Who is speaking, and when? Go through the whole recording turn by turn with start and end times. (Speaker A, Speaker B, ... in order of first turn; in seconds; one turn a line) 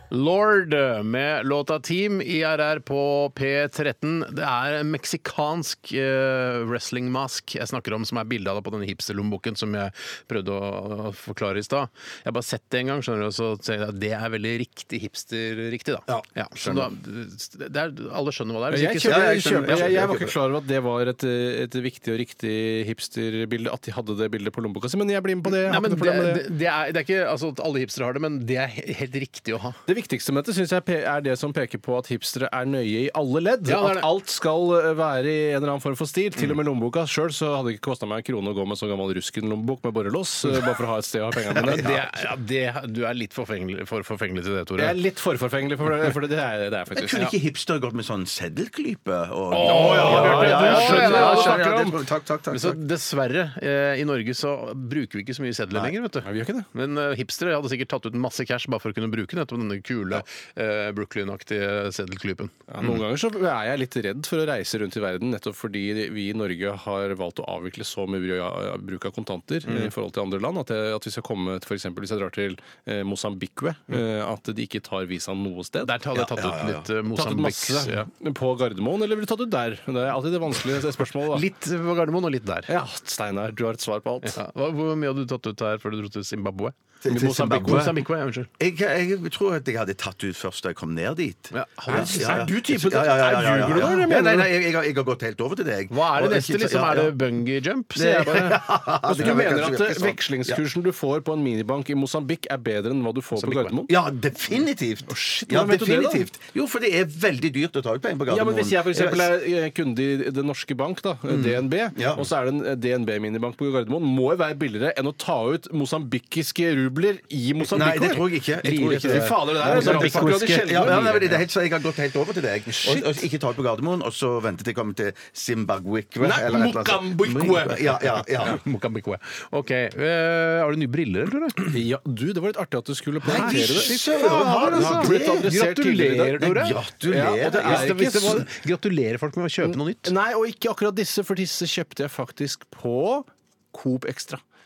Speaker A: 0.1-20.1
Speaker B: 16.1-16.9
Speaker C: 18.7-26.4
Speaker B: 19.0-20.3
Speaker A: 25.4-29.8
Speaker C: 29.9-41.9
Speaker A: 33.6-34.1
Speaker B: 41.6-42.0
Speaker A: 41.6-45.0
Speaker C: 44.8-47.2
Speaker B: 46.9-52.8
Speaker A: 49.5-51.7
Speaker C: 49.6-52.0
Speaker A: 52.5-63.0
Speaker C: 56.2-56.7
Speaker C: 62.7-75.9
Speaker A: 69.7-69.9
Speaker A: 75.8-78.1
Speaker B: 76.2-76.9
Speaker C: 77.1-81.5
Speaker A: 81.3-82.7
Speaker C: 82.7-84.4
Speaker A: 84.2-86.8
Speaker B: 87.0-88.0
Speaker C: 87.1-88.0
Speaker A: 87.5-88.5
Speaker B: 88.6-97.2
Speaker A: 91.5-92.5
Speaker C: 91.9-94.1
Speaker A: 93.6-94.5
Speaker A: 95.9-99.4
Speaker B: 98.0-100.6
Speaker C: 99.0-103.9
Speaker A: 103.3-103.8
Speaker B: 103.9-109.3
Speaker C: 105.1-106.3
Speaker C: 108.3-121.4
Speaker A: 111.3-111.6
Speaker B: 111.9-112.2
Speaker B: 117.7-128.6
Speaker A: 117.7-121.4
Speaker C: 122.8-123.1
Speaker C: 126.2-128.2
Speaker A: 128.4-131.8
Speaker C: 131.7-136.4
Speaker B: 133.2-135.5
Speaker A: 133.3-136.8
Speaker B: 136.4-138.4
Speaker C: 137.1-138.4
Speaker A: 137.6-140.1
Speaker C: 140.0-144.4